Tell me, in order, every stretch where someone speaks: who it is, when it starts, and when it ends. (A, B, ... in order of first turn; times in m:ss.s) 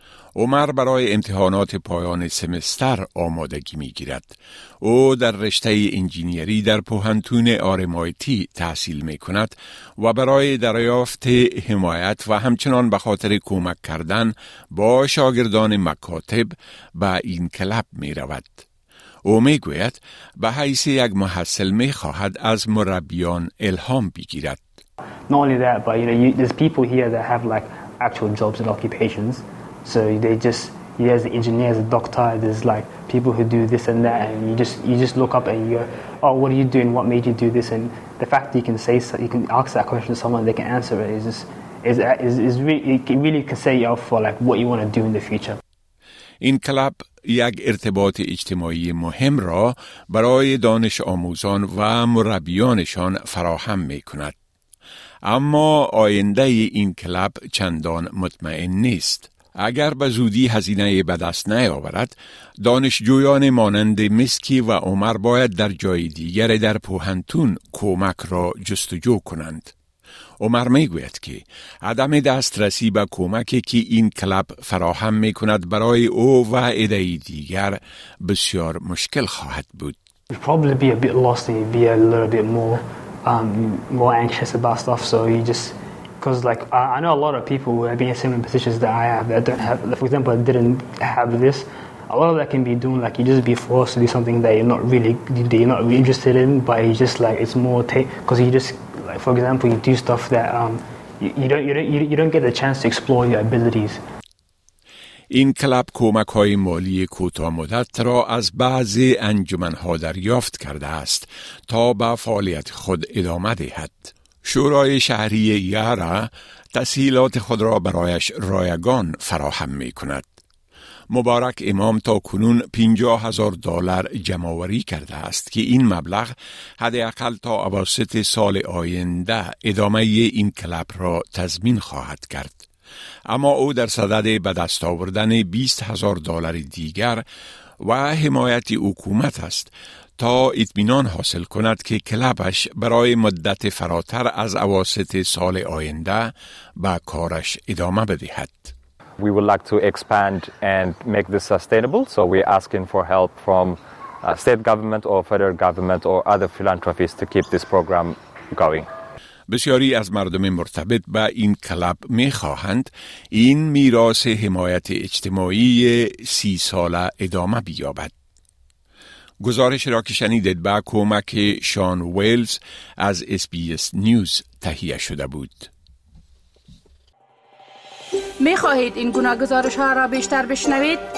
0:00.4-0:18.6 A
0:19.2-0:24.6 A
0:25.3-0:45.6 B
0:46.4-0:54.4 A
0:55.2-1:09.7 A
1:10.4-1:20.0 A
1:20.3-1:44.0 B
1:45.3-2:00.3 A
2:01.1-2:12.6 A
2:13.3-2:17.2 A
2:17.8-2:28.7 A
2:29.2-2:38.9 C
2:39.5-2:48.1 A
2:49.4-2:55.7 A
2:58.4-3:01.0 D